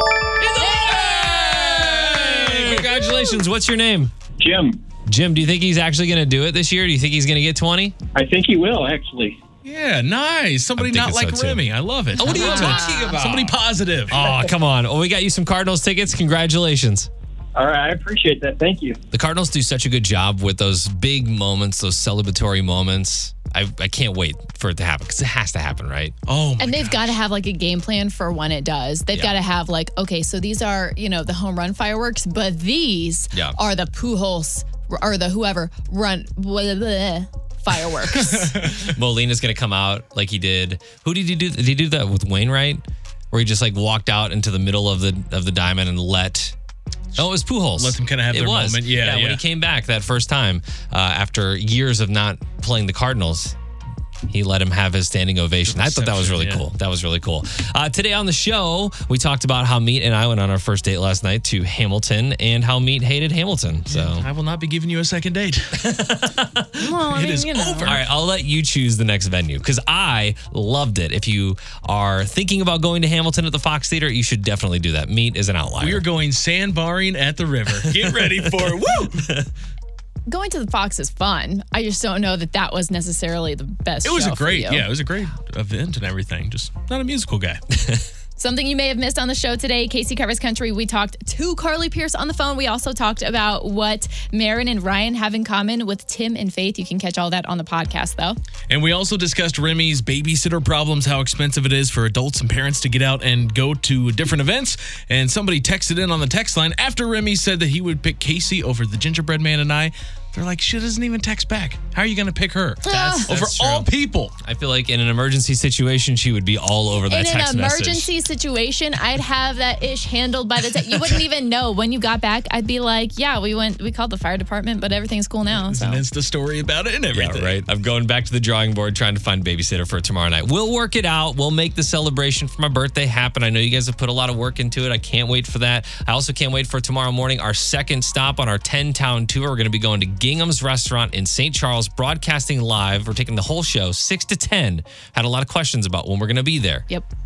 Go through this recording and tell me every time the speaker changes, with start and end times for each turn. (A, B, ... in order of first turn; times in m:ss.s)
0:00.4-0:04.1 A
0:00.6-0:02.9 B
0:00.6-0:01.0 C
0:04.4-0:04.8 D
0:05.1-0:08.0 A
0:08.2-0:09.4 D
0:09.6-0:14.3 B
0:10.8-0:13.6 A
0:12.2-0:13.2 C
0:14.1-0:17.1 A
0:14.1-0:14.5 D
0:17.6-0:19.0 D
0:19.1-0:26.2 A
0:26.3-0:27.2 B
0:26.6-0:38.5 C
0:33.3-0:33.6 A
0:38.2-0:38.9 B
0:38.5-0:46.6 A
0:47.2-0:49.4 B
0:47.2-0:53.6 A
0:54.3-1:04.3 A
0:55.7-0:56.7 B
1:03.9-1:05.9 B
1:05.8-1:06.9 A
1:06.8-1:08.0 C
1:07.0-1:08.0 B
1:07.8-1:16.1 A
1:15.8-1:19.3 B
1:17.8-1:19.5 A
1:20.3-1:24.9 C
1:24.0-1:27.6 B
1:28.4-1:38.4 C
1:38.7-1:54.3 B
1:52.8-1:53.3 C
1:52.9-1:58.1 A
1:57.1-2:06.0 C
2:05.5-2:07.6 B
2:07.1-2:26.9 A